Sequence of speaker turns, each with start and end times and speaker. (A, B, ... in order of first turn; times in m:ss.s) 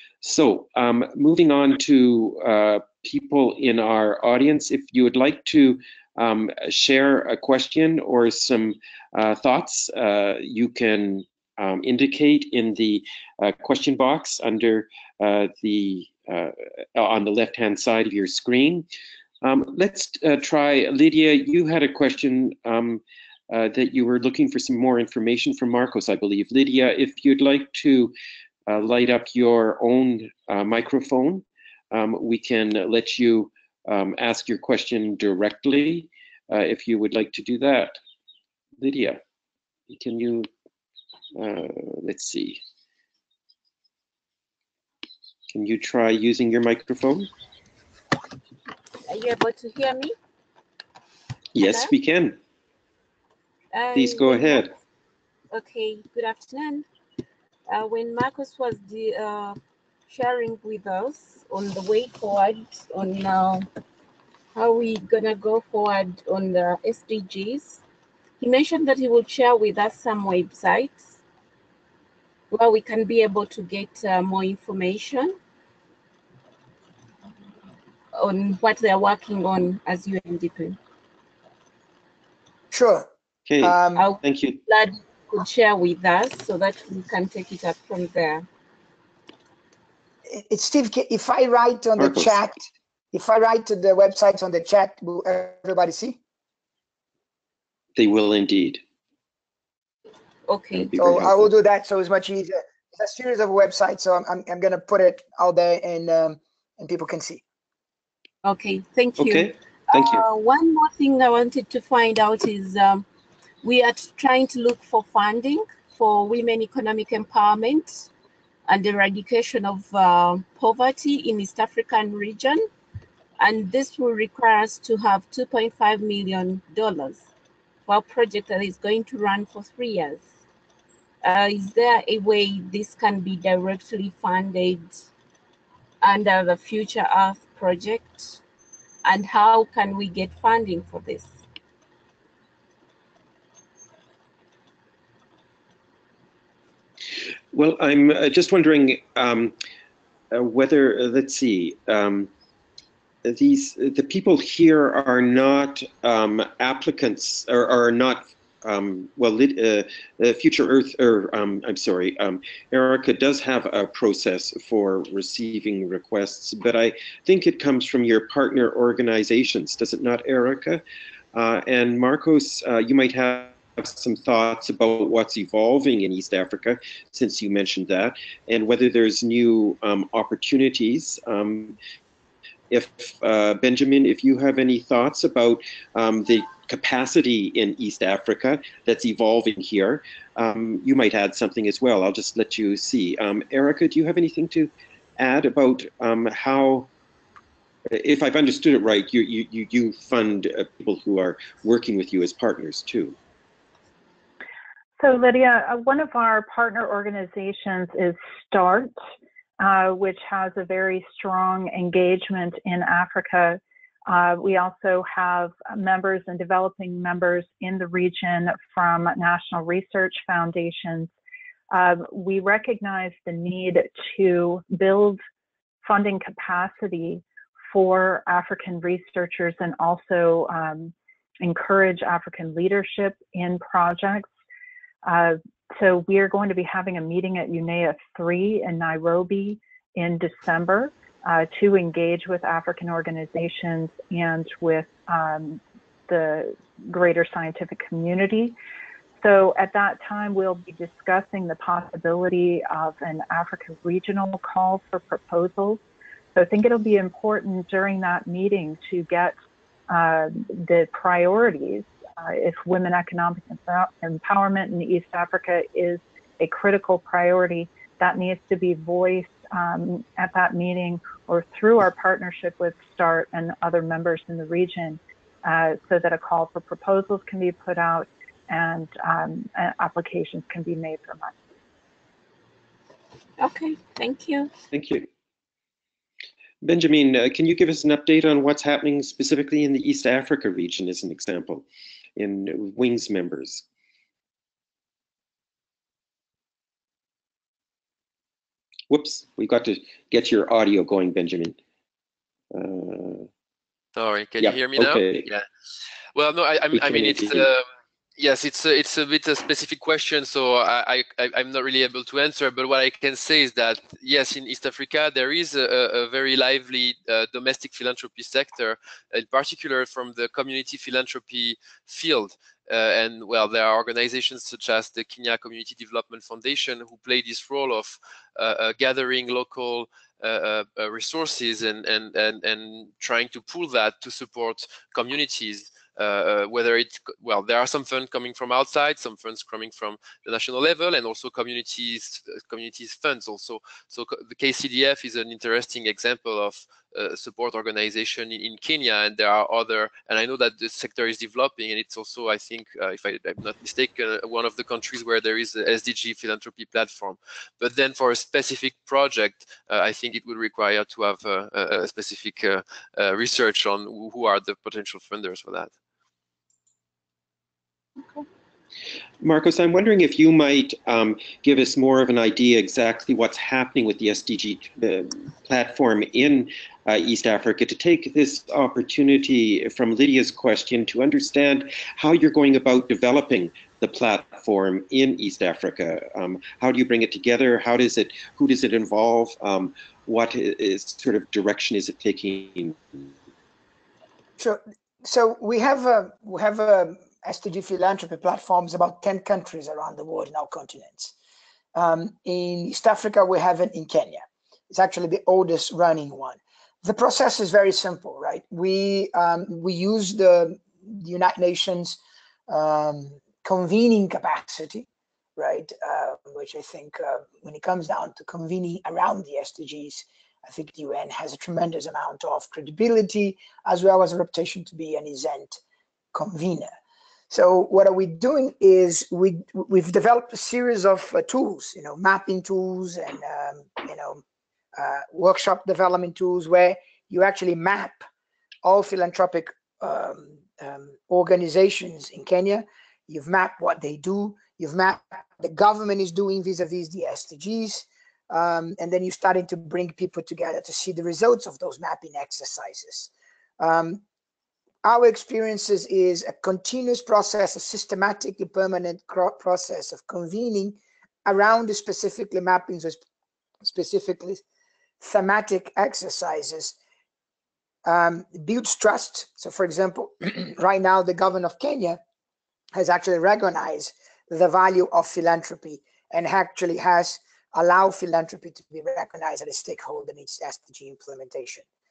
0:00.2-0:18.9 A
0:19.4-0:28.1 A
0:28.7-0:38.0 A
0:38.8-0:39.2 A
0:39.9-0:40.5 A
0:41.4-0:42.6 A
0:45.5-0:47.3 A
0:49.1-0:50.2 B
0:51.6-0:52.4 A
0:51.6-0:51.9 B
0:53.7-0:54.7 B
0:53.9-0:54.7 A
0:55.5-0:56.9 B
0:57.7-1:03.7 B
1:04.6-1:07.8 B
1:08.4-1:11.2 B
1:12.5-1:15.4 B
1:18.2-1:20.8 B
1:22.7-1:23.1 C
1:23.5-1:24.6 A
1:23.6-1:24.0 C
1:24.0-1:28.5 B
1:30.3-1:36.2 C
1:32.0-1:32.4 A
1:38.0-1:38.8 A
1:40.5-1:41.0 B
1:40.8-1:41.5 A
1:41.0-1:47.4 C
1:48.4-1:53.1 B
1:49.2-1:50.2 A
1:53.6-1:58.1 B
1:58.7-2:02.7 B
2:03.4-2:07.3 B
2:07.9-2:10.3 B
2:11.2-2:15.0 B
2:16.0-2:18.4 B
2:19.0-2:21.4 B
2:27.5-2:29.5 A
2:30.3-2:32.3 A
2:33.2-2:50.8 A
2:51.3-3:01.8 A
3:02.7-3:16.9 A
3:17.9-3:23.2 A
3:25.0-3:28.9 D
3:29.6-3:41.1 D
3:41.7-3:45.2 D
3:45.8-3:54.3 D
3:55.0-4:08.6 D
4:09.2-4:15.8 D
4:16.4-4:19.4 D
4:19.9-4:41.4 D
4:43.4-4:44.5 B
4:44.7-4:45.1 A
4:46.6-4:51.6 A
4:52.2-4:53.6 A
4:58.9-5:01.6 A
5:02.5-5:03.3 A
5:04.0-5:05.4 E
5:04.4-5:05.3 A
5:06.2-5:07.7 E
5:06.7-5:07.5 A
5:08.2-6:05.7 E
6:09.2-6:33.1 A
6:34.4-6:41.1 C
6:41.8-6:54.9 C
6:55.4-7:05.6 C
7:06.1-7:06.7 C
7:07.3-7:14.2 C
7:14.8-7:18.0 C
7:18.6-7:34.0 C
7:34.8-7:43.0 C
7:43.6-7:44.4 C
7:45.0-7:46.8 C
7:47.8-7:52.0 C
7:52.7-8:01.6 C